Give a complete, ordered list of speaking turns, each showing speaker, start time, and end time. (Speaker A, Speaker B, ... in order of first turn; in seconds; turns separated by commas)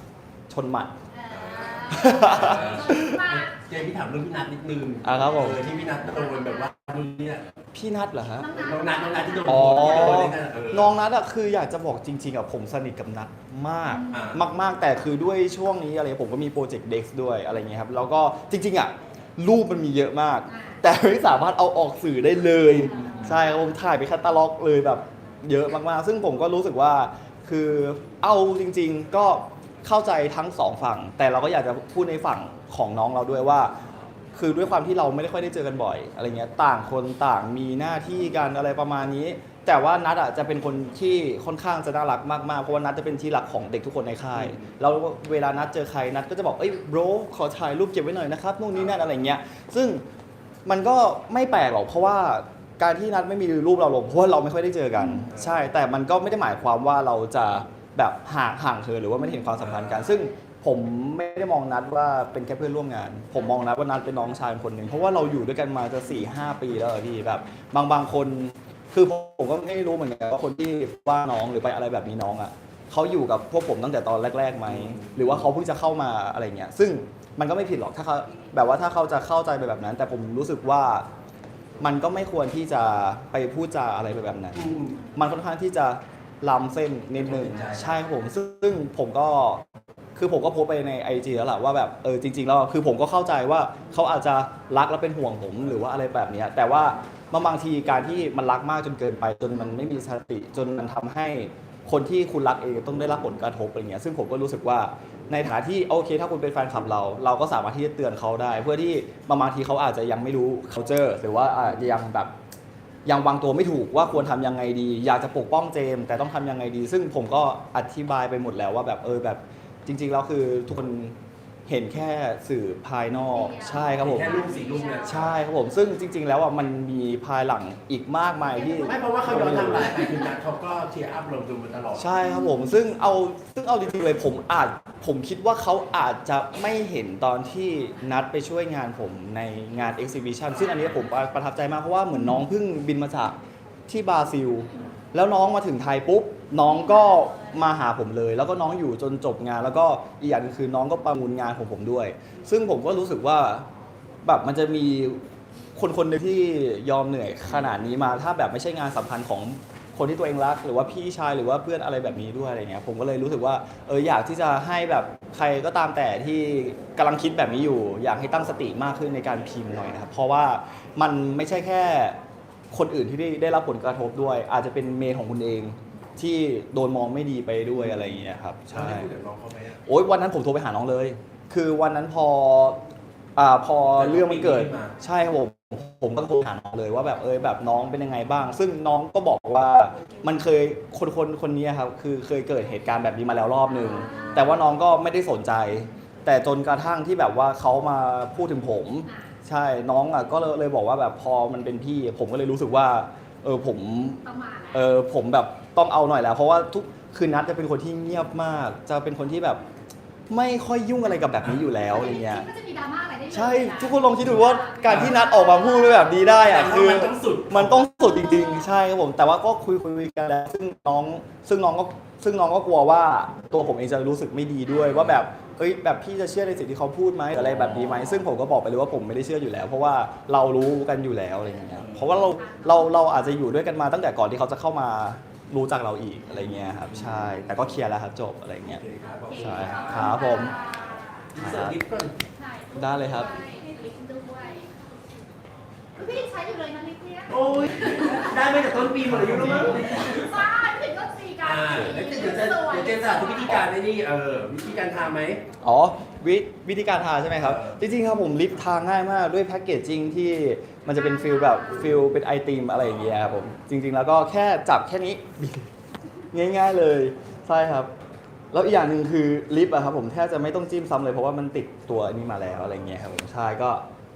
Speaker A: 0.5-0.9, Speaker B: 1.1-3.5, Speaker C: 1.3-7.5, Speaker A: 1.9-3.1, Speaker A: 5.0-5.6, Speaker A: 7.7-8.5, Speaker B: 8.4-10.1, Speaker C: 8.5-11.0, Speaker A: 9.4-33.7, Speaker B: 13.9-14.3, Speaker C: 14.1-14.4, Speaker B: 20.5-20.8, Speaker C: 22.8-23.4, Speaker A: 34.3-50.0, Speaker C: 44.3-44.7, Speaker A: 50.6-81.1, Speaker C: 55.3-55.6, Speaker C: 59.6-60.1, Speaker C: 74.7-75.4, Speaker A: 81.8-89.6, Speaker C: 84.5-85.0, Speaker C: 87.2-88.0, Speaker A: 90.2-112.3, Speaker A: 113.0-121.2, Speaker A: 121.7-124.4, Speaker B: 123.3-125.4, Speaker C: 123.9-125.3, Speaker A: 125.0-130.0, Speaker B: 128.7-128.9, Speaker C: 128.7-132.1, Speaker A: 132.0-143.4, Speaker A: 143.9-153.7, Speaker B: 146.9-147.5, Speaker A: 154.2-155.2, Speaker A: 155.8-172.2, Speaker A: 172.7-179.1, Speaker C: 178.7-179.8, Speaker A: 179.9-182.8, Speaker A: 183.4-204.2, Speaker C: 183.9-185.0, Speaker B: 193.8-194.7, Speaker B: 204.2-204.9, Speaker A: 204.7-209.6, Speaker A: 210.3-212.5, Speaker B: 211.9-216.4, Speaker A: 213.3-238.8, Speaker C: 214.8-215.2, Speaker C: 216.4-217.9, Speaker B: 218.0-218.7, Speaker B: 232.1-233.1, Speaker C: 236.7-237.4, Speaker C: 238.7-240.8, Speaker B: 239.3-241.2, Speaker A: 239.4-240.5, Speaker C: 241.3-242.2, Speaker A: 241.4-241.8, Speaker B: 242.4-244.7, Speaker A: 242.7-243.3, Speaker B: 246.0-248.3, Speaker C: 247.3-250.5, Speaker A: 249.1-249.8, Speaker B: 249.8-253.7, Speaker C: 251.4-255.4, Speaker A: 251.7-252.0, Speaker A: 255.6-265.7, Speaker C: 257.4-257.8, Speaker B: 260.9-262.0, Speaker A: 266.3-267.9, Speaker A: 268.5-273.8